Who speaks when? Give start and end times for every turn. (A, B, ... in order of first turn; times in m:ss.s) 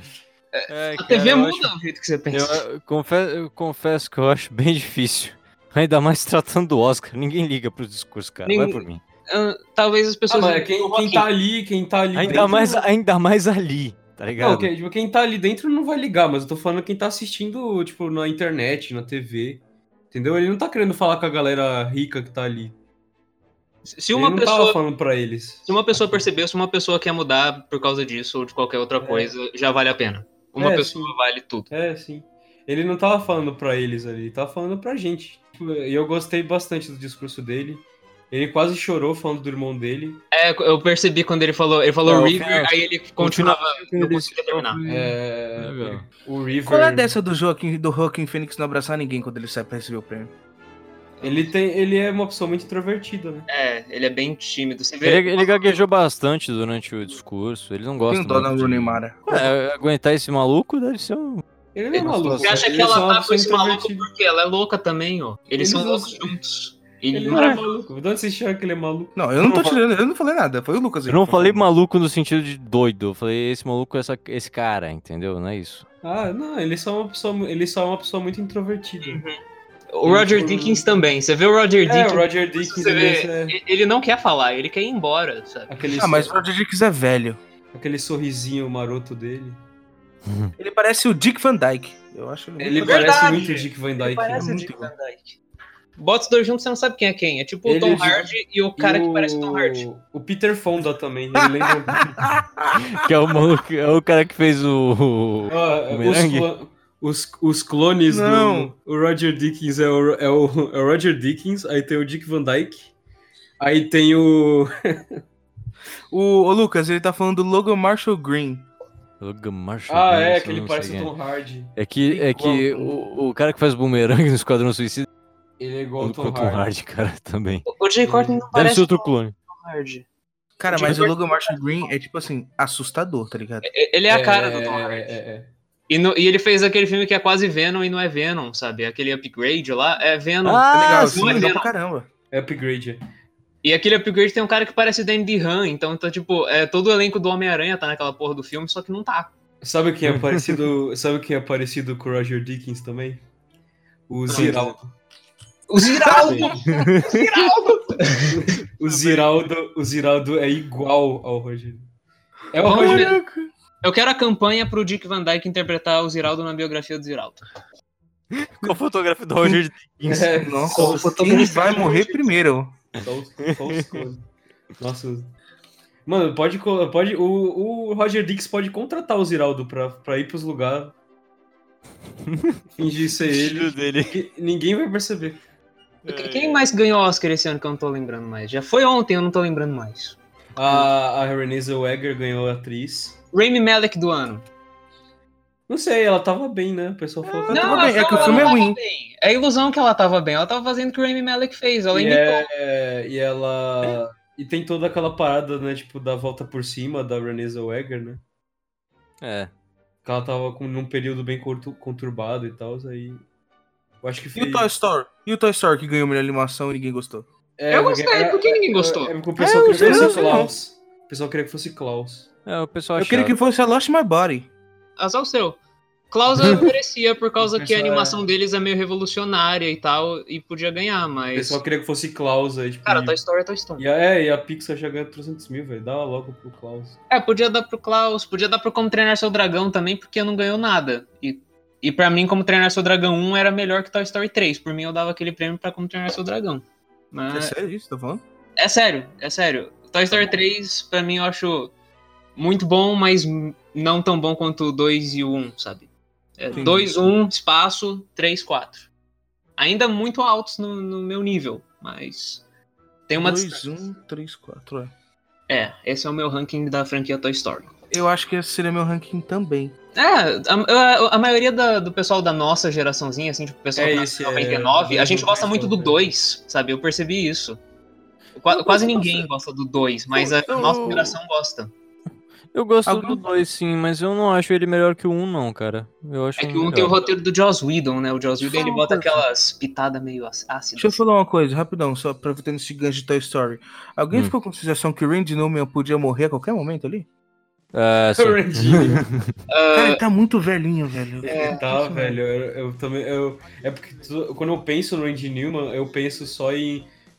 0:00.5-0:02.6 A
0:00.7-0:01.7 B
0:02.3-0:09.0 B
0:08.4-0:11.3 A
0:10.3-0:12.8 C
0:12.1-0:14.7 B
0:14.4-0:22.7 C
0:23.9-0:24.8 A
0:24.1-0:26.2 C
0:25.7-0:31.7 A
0:29.0-0:29.3 C
0:30.6-0:31.1 C
0:31.7-0:40.2 C
0:40.3-0:44.8 A
0:42.1-0:46.0 B
0:44.9-0:47.1 C
0:46.6-0:50.3 D
0:51.2-0:51.5 A
0:51.2-0:53.5 C
0:53.5-0:55.7 A
0:55.0-1:01.4 B
0:58.1-0:59.4 D
1:01.7-1:04.1 C
1:01.9-1:02.7 B
1:02.0-1:07.7 A
1:05.6-1:06.4 C
1:07.1-1:09.2 C
1:07.3-1:07.6 D
1:09.2-1:11.6 D
1:11.1-1:15.8 B
1:16.0-1:19.2 C
1:19.0-1:19.4 A
1:19.9-1:25.8 A
1:20.0-1:21.0 C
1:21.8-1:23.6 C
1:25.7-1:26.4 C
1:25.8-1:27.4 D
1:27.7-1:29.6 C
1:30.3-1:30.5 B
1:30.6-1:33.3 D
1:32.6-1:34.6 C
1:32.7-1:35.4 A
1:34.3-1:34.9 D
1:36.0-1:39.8 A
1:37.6-1:42.2 C
1:42.0-1:42.8 D
1:42.9-1:46.5 B
1:45.5-1:52.9 C
1:48.1-1:48.7 D
1:53.6-1:55.2 C
1:56.1-1:58.7 D
1:59.2-2:01.1 B
1:59.9-2:03.0 C
2:01.8-2:05.1 B
2:05.6-2:06.6 C
2:06.0-2:07.7 B
2:07.7-2:10.1 A
2:08.0-2:08.4 C
2:08.5-2:09.3 B
2:10.6-2:13.7 D
2:10.7-2:11.6 A
2:13.6-2:15.1 A
2:14.1-2:15.5 C
2:15.9-2:21.7 A
2:20.4-2:21.5 B
2:20.7-2:22.1 D
2:22.3-2:23.0 C
2:23.6-2:29.3 A
2:29.6-2:33.2 C
2:34.1-2:34.9 C
2:34.3-2:34.7 A
2:35.7-2:38.4 A
2:36.0-2:36.6 C
2:36.7-2:37.2 B
2:38.3-2:41.8 C
2:38.9-2:39.2 B
2:42.5-2:43.2 C
2:42.6-2:43.2 A
2:43.8-2:47.4 A
2:48.4-2:50.3 B
2:50.1-2:51.1 C
2:50.4-2:52.7 D
2:50.7-2:52.3 A
2:53.0-2:54.3 C
2:54.8-2:55.3 C
2:56.1-3:00.9 C
3:02.3-3:02.6 B
3:02.8-3:05.4 C
3:03.3-3:04.1 B
3:06.0-3:06.7 B
3:06.1-3:10.2 A
3:10.6-3:13.2 C
3:13.3-3:14.4 A
3:15.7-3:18.5 C
3:17.2-3:17.6 B
3:17.5-3:18.8 D
3:17.5-3:22.5 A
3:21.9-3:28.2 C
3:29.2-3:29.5 B
3:30.0-3:33.2 C
3:34.0-3:34.7 C
3:34.4-3:37.3 D
3:37.6-3:42.3 C
3:37.7-3:39.1 A
3:39.4-3:40.4 B
3:39.6-3:40.5 D
3:42.4-3:43.4 B
3:43.0-3:44.5 D
3:45.0-3:45.6 A
3:46.1-3:51.6 A
3:47.4-3:48.2 C
3:51.3-3:53.2 C
3:52.9-3:53.8 A
3:53.8-3:57.0 C
3:57.1-4:07.5 A
4:07.3-4:08.2 D
4:08.6-4:11.7 A
4:12.4-4:18.9 A
4:16.5-4:16.9 D
4:19.6-4:22.4 A
4:23.1-4:23.6 A
4:23.1-4:24.9 D
4:25.5-4:27.7 A
4:27.9-4:29.8 D
4:30.0-4:37.6 A
4:33.7-4:36.0 C
4:38.4-4:41.7 A
4:40.2-4:41.2 B
4:42.5-4:47.0 B
4:42.9-4:43.2 D
4:46.4-4:51.0 A
4:48.4-4:49.2 D
4:50.8-4:57.1 D
4:57.7-4:59.3 B
4:58.2-4:59.0 C
4:59.5-5:00.0 A
4:59.7-5:02.2 D
5:01.2-5:06.9 C
5:01.3-5:01.7 A